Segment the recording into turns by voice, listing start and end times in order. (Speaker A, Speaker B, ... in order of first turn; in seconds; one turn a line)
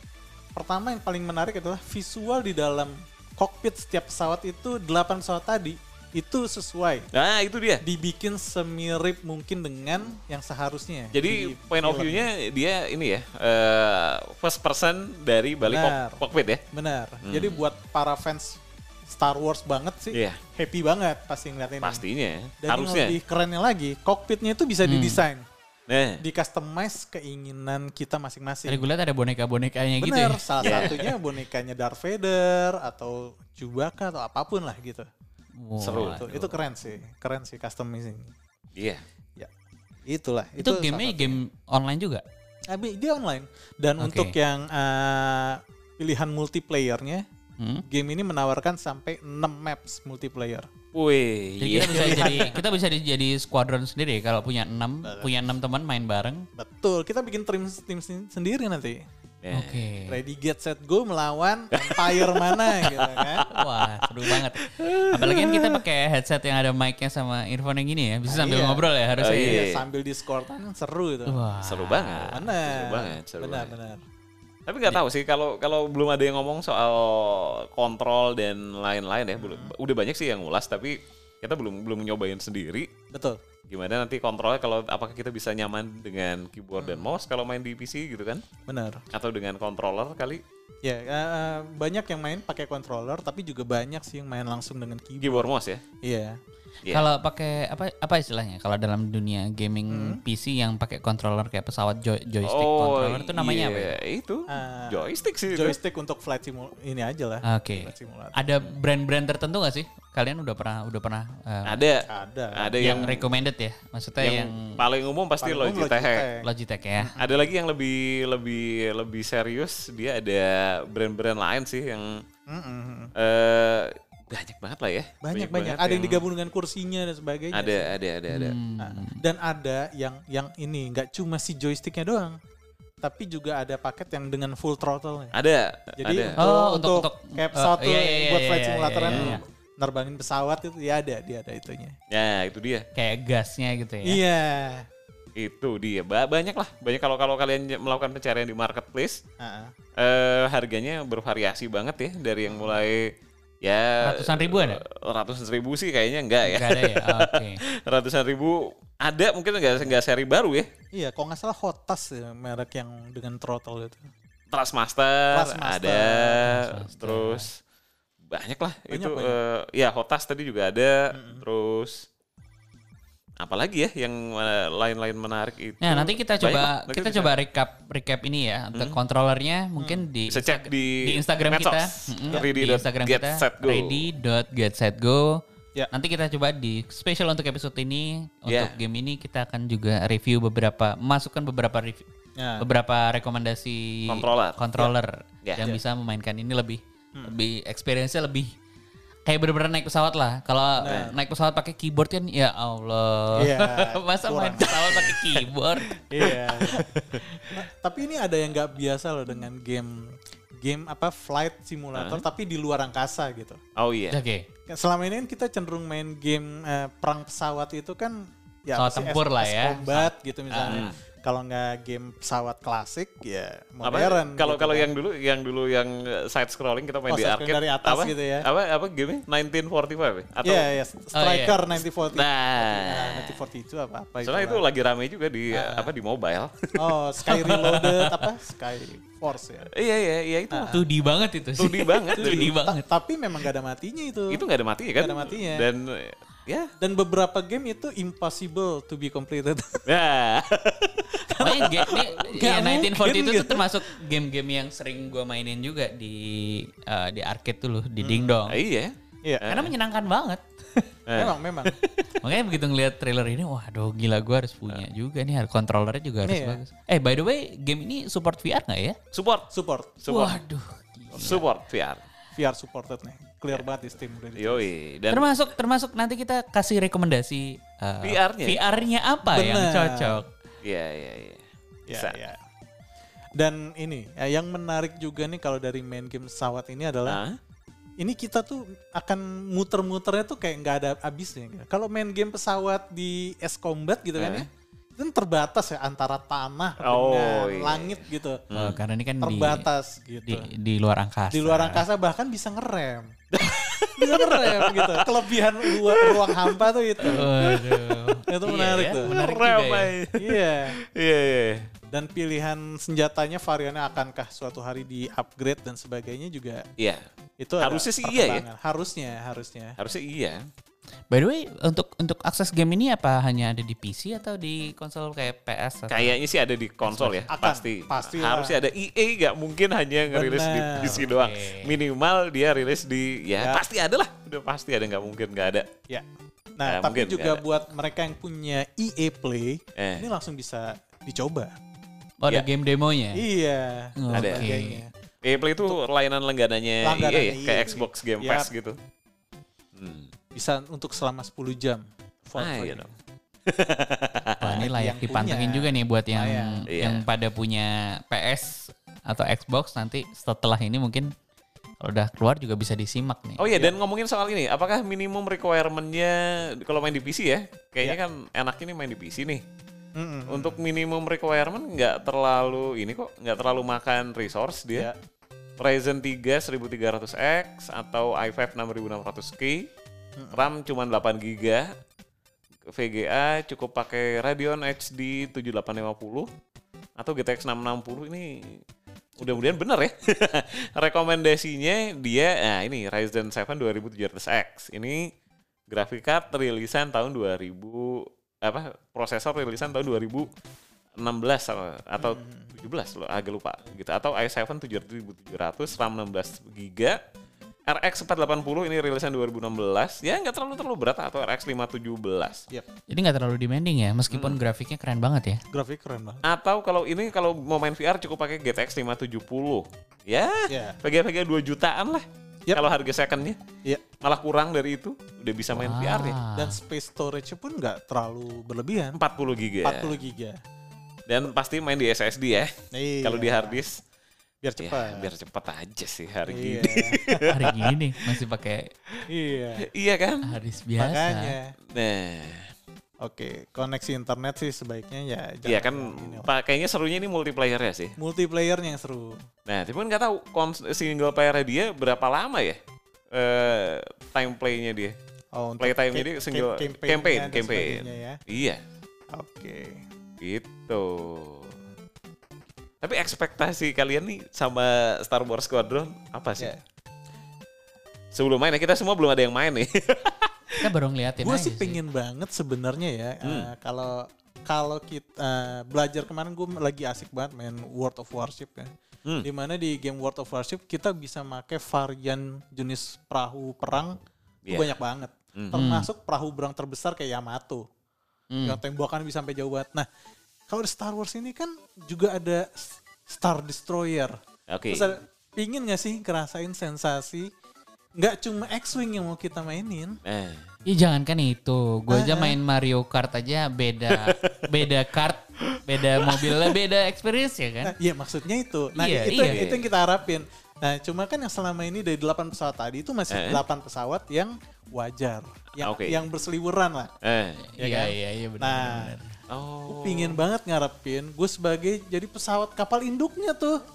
Speaker A: 0.6-7.1
Speaker B: 7.1-7.8
Speaker A: 7.8-12.3
Speaker B: 11.1-16.6
Speaker A: 15.7-22.0
Speaker B: 17.2-17.6
Speaker B: 20.1-20.4
Speaker B: 21.8-23.2
Speaker A: 22.6-25.4
Speaker C: 24.8-25.2
Speaker B: 25.9-26.2
Speaker A: 26.2-28.8
Speaker C: 28.7-31.1
Speaker A: 30.0-35.1
Speaker B: 30.6-31.0
Speaker C: 35.6-36.5
Speaker B: 35.8-36.3
Speaker A: 36.0-38.3
Speaker B: 38.8-39.0
Speaker A: 40.1-41.4
Speaker C: 40.6-42.2
Speaker A: 42.7-47.2
Speaker C: 44.0-44.4
Speaker C: 47.6-47.8
Speaker A: 47.9-50.7
Speaker B: 50.9-52.5
Speaker C: 51.6-56.5
Speaker A: 51.7-52.6
Speaker A: 55.0-55.3
Speaker A: 56.5-59.0
Speaker B: 59.4-59.9
Speaker C: 59.5-60.2
Speaker A: 60.1-63.4
Speaker B: 61.7-65.8
Speaker C: 63.5-69.6
Speaker A: 68.3-71.5
Speaker B: 69.2-69.8
Speaker C: 71.3-72.4
Speaker B: 71.6-73.7
Speaker A: 72.3-74.0
Speaker B: 74.7-82.9
Speaker A: 79.4-79.7
Speaker A: 83.1-83.4
Speaker B: 83.7-88.4
Speaker A: 86.8-87.1
Speaker A: 88.7-89.0
Speaker B: 89.1-90.4
Speaker A: 90.8-95.5
Speaker B: 95.2-95.8
Speaker A: 96.0-96.4
Speaker C: 96.9-103.9
Speaker A: 99.9-100.2
Speaker B: 102.4-105.8
Speaker A: 104.5-108.4
Speaker C: 107.5-111.8
Speaker B: 111.7-113.3
Speaker A: 112.1-113.1
Speaker C: 112.8-114.8
Speaker B: 114.2-116.2
Speaker A: 115.4-116.5
Speaker C: 116.4-117.1
Speaker A: 117.0-117.4
Speaker B: 117.2-122.2
Speaker A: 122.5-123.1
Speaker B: 123.2-126.2
Speaker A: 125.2-127.9
Speaker B: 127.5-128.6
Speaker C: 128.3-129.2
Speaker A: 128.8-132.3
Speaker A: 133.0-135.3
Speaker B: 135.3-136.4
Speaker A: 136.0-141.9
Speaker C: 136.4-139.4
Speaker B: 139.1-139.4
Speaker B: 142.1-142.9
Speaker C: 142.9-144.2
Speaker A: 144.0-144.9
Speaker B: 145.3-149.2
Speaker A: 149.4-149.7
Speaker B: 150.0-153.1
Speaker A: 152.4-152.8
Speaker B: 153.6-160.7
Speaker C: 154.0-154.8
Speaker C: 156.4-157.6
Speaker A: 160.9-164.1
Speaker B: 164.5-167.6
Speaker A: 165.3-166.4
Speaker C: 166.4-167.5
Speaker B: 168.3-172.1
Speaker A: 168.9-169.4
Speaker A: 171.1-171.4
Speaker B: 173.4-177.3
Speaker C: 175.8-192.0
Speaker A: 179.8-180.1
Speaker B: 180.3-184.0
Speaker B: 188.5-188.8
Speaker A: 192.4-192.6
Speaker C: 192.6-198.5
Speaker B: 194.1-194.6
Speaker B: 195.4-195.7
Speaker C: 199.2-206.3
Speaker A: 200.8-201.1
Speaker B: 200.8-201.1
Speaker A: 203.3-205.2
Speaker A: 206.1-206.9
Speaker B: 206.2-207.6
Speaker A: 207.5-213.6
Speaker B: 211.9-212.2
Speaker B: 213.8-214.2
Speaker C: 214.1-214.5
Speaker A: 214.7-224.9
Speaker C: 218.7-220.8
Speaker B: 220.6-221.0
Speaker B: 223.8-230.7
Speaker A: 227.1-228.5
Speaker A: 230.4-234.6
Speaker C: 231.1-231.6
Speaker B: 232.1-233.4
Speaker B: 234.2-238.1
Speaker A: 235.5-235.9
Speaker A: 236.8-239.7
Speaker C: 237.3-237.8
Speaker B: 239.7-240.7
Speaker A: 240.5-240.8
Speaker C: 240.7-242.8
Speaker B: 241.6-242.5
Speaker A: 242.2-244.4
Speaker B: 244.3-246.7
Speaker A: 245.0-245.7
Speaker A: 246.8-249.8
Speaker B: 249.9-252.7
Speaker A: 251.3-253.6
Speaker C: 251.4-258.6
Speaker A: 258.0-258.4
Speaker B: 258.5-259.7
Speaker C: 259.4-260.4
Speaker B: 261.1-261.7
Speaker A: 261.1-261.8
Speaker C: 262.2-269.0
Speaker A: 266.2-266.6
Speaker B: 269.1-269.5
Speaker A: 269.5-270.0
Speaker B: 270.0-270.4
Speaker C: 270.1-271.4
Speaker B: 271.1-272.0
Speaker A: 272.3-274.7
Speaker B: 274.4-275.3
Speaker C: 275.1-280.3
Speaker B: 278.0-278.6
Speaker A: 279.3-280.2
Speaker B: 280.6-282.2
Speaker A: 281.9-282.4
Speaker A: 283.4-287.2
Speaker B: 287.1-287.4
Speaker A: 288.0-298.4
Speaker B: 294.2-294.5
Speaker B: 296.8-298.8
Speaker C: 298.5-299.6
Speaker A: 299.2-300.5
Speaker C: 300.2-301.8
Speaker A: 301.3-303.2
Speaker B: 303.3-308.0
Speaker A: 304.0-307.3
Speaker C: 307.0-309.9
Speaker A: 308.3-309.2
Speaker B: 309.1-311.7
Speaker A: 310.2-310.8
Speaker A: 311.9-316.6
Speaker B: 316.8-317.0
Speaker A: 317.4-319.8
Speaker B: 317.6-318.4
Speaker B: 319.8-320.4
Speaker C: 321.1-326.1
Speaker B: 325.9-335.7
Speaker C: 326.9-327.3
Speaker A: 327.3-328.6
Speaker A: 330.1-331.0
Speaker C: 330.8-331.7
Speaker A: 336.6-341.5
Speaker B: 336.7-337.4
Speaker B: 339.8-340.1
Speaker C: 342.2-343.2
Speaker A: 343.1-344.9
Speaker C: 344.0-344.8
Speaker B: 344.1-344.5
Speaker B: 345.2-348.8
Speaker A: 346.8-348.5
Speaker B: 349.7-350.1
Speaker A: 350.3-352.9
Speaker B: 352.4-352.9
Speaker B: 353.4-354.7
Speaker C: 354.4-361.1
Speaker A: 354.4-356.6
Speaker B: 356.7-357.0
Speaker C: 361.8-363.5
Speaker B: 363.4-369.4
Speaker A: 363.5-363.8
Speaker A: 369.9-370.6
Speaker B: 370.3-374.9
Speaker B: 375.6-379.7
Speaker A: 380.2-380.5
Speaker B: 380.3-381.7
Speaker B: 382.7-386.3
Speaker B: 387.0-388.6
Speaker A: 389.2-389.5
Speaker B: 389.2-395.1
Speaker B: 395.7-400.3
Speaker B: 401.0-407.0
Speaker A: 402.0-402.5
Speaker B: 407.7-412.4
Speaker C: 412.9-415.4
Speaker B: 414.1-414.4
Speaker A: 415.5-416.2
Speaker B: 416.2-423.4
Speaker A: 420.5-420.8
Speaker B: 424.0-426.2
Speaker C: 425.5-426.6
Speaker A: 426.3-429.0
Speaker B: 428.9-430.0
Speaker A: 429.6-430.4
Speaker B: 431.1-433.8
Speaker A: 432.7-433.6
Speaker A: 434.4-435.1
Speaker B: 434.6-437.7
Speaker A: 436.3-437.3
Speaker C: 437.2-438.7
Speaker A: 439.1-439.7
Speaker B: 439.6-440.3
Speaker C: 440.2-441.4
Speaker A: 440.8-441.5
Speaker B: 441.7-442.5
Speaker A: 443.0-446.3
Speaker B: 445.4-447.9
Speaker A: 448.0-449.2
Speaker B: 449.5-452.6
Speaker B: 453.1-454.9
Speaker A: 455.3-458.2
Speaker B: 455.6-458.6
Speaker A: 459.1-459.9
Speaker B: 460.2-461.6
Speaker B: 462.8-466.5
Speaker B: 468.1-470.6
Speaker C: 470.6-471.8
Speaker A: 471.2-478.7
Speaker B: 473.2-473.5
Speaker A: 479.2-487.6
Speaker B: 484.4-484.7
Speaker B: 485.4-485.6
Speaker C: 485.5-485.9
Speaker C: 488.3-488.6
Speaker A: 488.4-489.9
Speaker A: 490.5-494.2
Speaker B: 494.5-494.9
Speaker A: 494.7-497.3
Speaker A: 498.0-500.0
Speaker B: 500.0-500.5
Speaker C: 500.6-507.7
Speaker A: 501.9-502.4
Speaker B: 503.9-504.7
Speaker B: 505.5-506.5
Speaker A: 507.6-516.9
Speaker C: 508.7-509.4
Speaker B: 509.1-509.7
Speaker B: 513.1-513.4
Speaker B: 515.6-516.0
Speaker B: 517.0-517.4
Speaker C: 517.4-519.2
Speaker A: 517.6-518.9
Speaker B: 519.3-520.2
Speaker A: 519.7-523.6